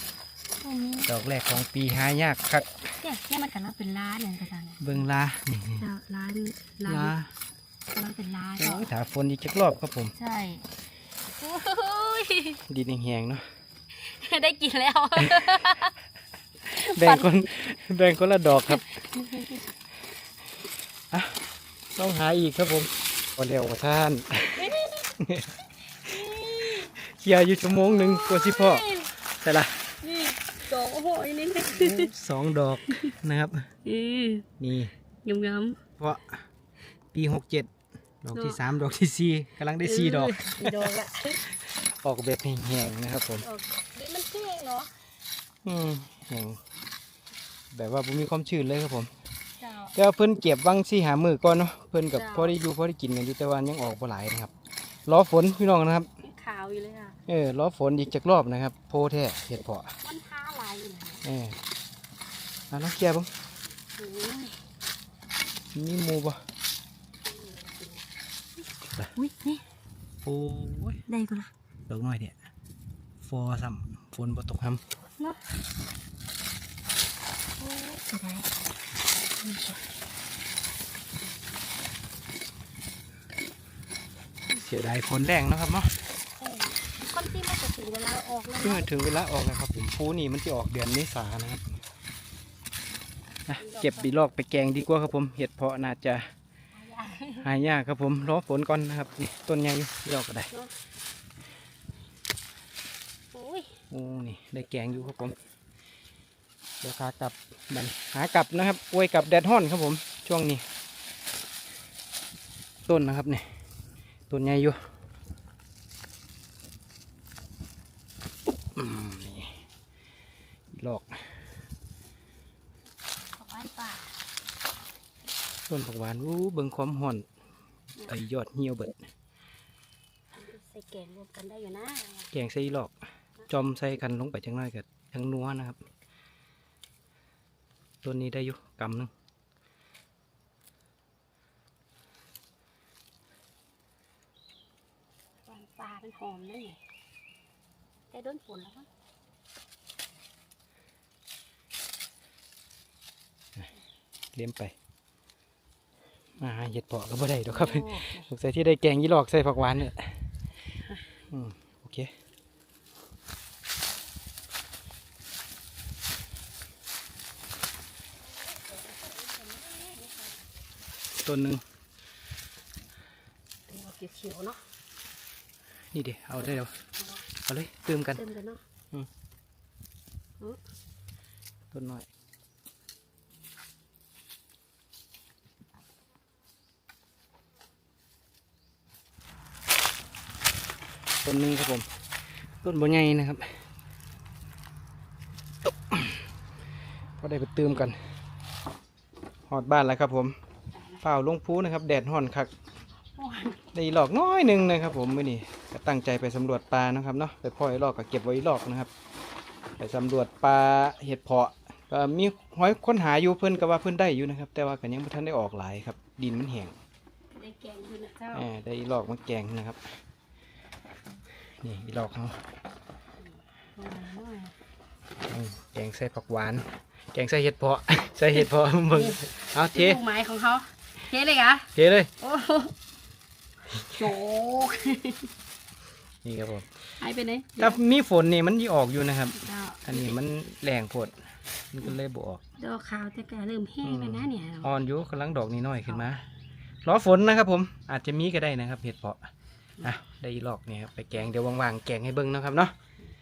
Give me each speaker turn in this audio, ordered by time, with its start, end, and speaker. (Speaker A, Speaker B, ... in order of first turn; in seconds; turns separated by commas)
Speaker A: 0.6-1.1, Speaker B: 1.1-2.9, Speaker A: 3.0-5.0, Speaker B: 4.8-5.8, Speaker A: 5.8-7.1, Speaker B: 6.8-7.3, Speaker A: 7.9-8.9, Speaker B: 8.6-10.1, Speaker A: 10.1-10.7, Speaker A: 11.3-12.6, Speaker B: 12.7-13.4, Speaker A: 13.9-15.9, Speaker B: 15.2-15.7, Speaker B: 16.7-18.9, Speaker A: 16.7-17.5, Speaker A: 18.7-19.7, Speaker B: 21.1-25.5, Speaker A: 24.6-25.1, Speaker A: 26.0-26.9, Speaker B: 26.2-29.9, Speaker A: 27.8-29.1, Speaker A: 30.0-32.1, Speaker B: 31.7-33.7, Speaker A: 32.9-33.1, Speaker A: 33.8-34.5, Speaker B: 34.6-34.9, Speaker A: 35.2-35.8, Speaker B: 36.0-36.4, Speaker B: 37.1-37.7, Speaker B: 38.2-40.9, Speaker A: 38.3-38.6, Speaker A: 39.8-41.5, Speaker B: 41.5-43.5, Speaker A: 43.4-44.9, Speaker B: 45.6-46.6, Speaker B: 47.7-49.1, Speaker A: 49.6-49.9, Speaker B: 49.9-54.5, Speaker A: 52.1-52.5, Speaker B: 55.0-56.1, Speaker A: 56.2-57.2, Speaker B: 57.3-59.9, Speaker A: 60.0-61.2, Speaker B: 61.2-61.6, Speaker B: 62.7-63.3, Speaker A: 64.0-64.6, Speaker B: 65.7-66.4, Speaker A: 67.2-68.1, Speaker A: 69.1-69.6, Speaker B: 70.2-71.0, Speaker A: 71.0-71.5, Speaker B: 71.9-72.4, Speaker B: 73.2-74.8, Speaker A: 77.6-79.8, Speaker B: 84.5-86.0, Speaker A: 86.4-88.9, Speaker B: 88.6-91.6, Speaker B: 93.5-96.2, Speaker A: 93.6-94.1, Speaker A: 96.7-97.5, Speaker B: 97.4-100.5, Speaker A: 103.3-103.8, Speaker B: 103.9-105.3, Speaker B: 106.8-110.6, Speaker B: 112.8-113.5, Speaker B: 114.3-114.8, Speaker B: 118.7-119.6, Speaker B: 120.7-121.3, Speaker A: 123.3-124.2, Speaker B: 125.7-127.2, Speaker B: 128.1-129.0, Speaker A: 130.3-132.3, Speaker B: 132.3-132.9, Speaker B: 133.5-135.8, Speaker B: 138.0-139.1, Speaker A: 145.4-146.8, Speaker A: 148.1-148.9, Speaker B: 154.3-154.7, Speaker B: 156.4-160.2, Speaker A: 157.5-158.3, Speaker B: 161.3-162.1, Speaker A: 168.4-170.5, Speaker B: 171.2-171.6, Speaker A: 173.7-174.6, Speaker B: 175.9-176.7, Speaker B: 177.4-178.2, Speaker A: 178.1-178.6, Speaker B: 181.7-182.1, Speaker B: 191.2-191.9, Speaker B: 192.6-193.6, Speaker B: 195.7-196.2, Speaker B: 197.2-198.0, Speaker B: 199.5-200.3, Speaker B: 201.0-202.5, Speaker A: 203.1-203.6, Speaker B: 203.7-208.9, Speaker B: 209.8-216.7, Speaker A: 217.3-218.5, Speaker B: 218.3-219.8, Speaker B: 221.6-222.4, Speaker A: 223.8-224.5, Speaker B: 225.3-230.0, Speaker A: 228.9-232.8, Speaker B: 231.7-232.1, Speaker A: 233.7-235.3, Speaker B: 236.2-236.8, Speaker A: 237.0-237.8, Speaker B: 237.6-242.4, Speaker A: 239.4-240.2, Speaker A: 242.6-244.8, Speaker B: 243.8-246.2, Speaker B: 246.8-249.3, Speaker B: 249.8-252.7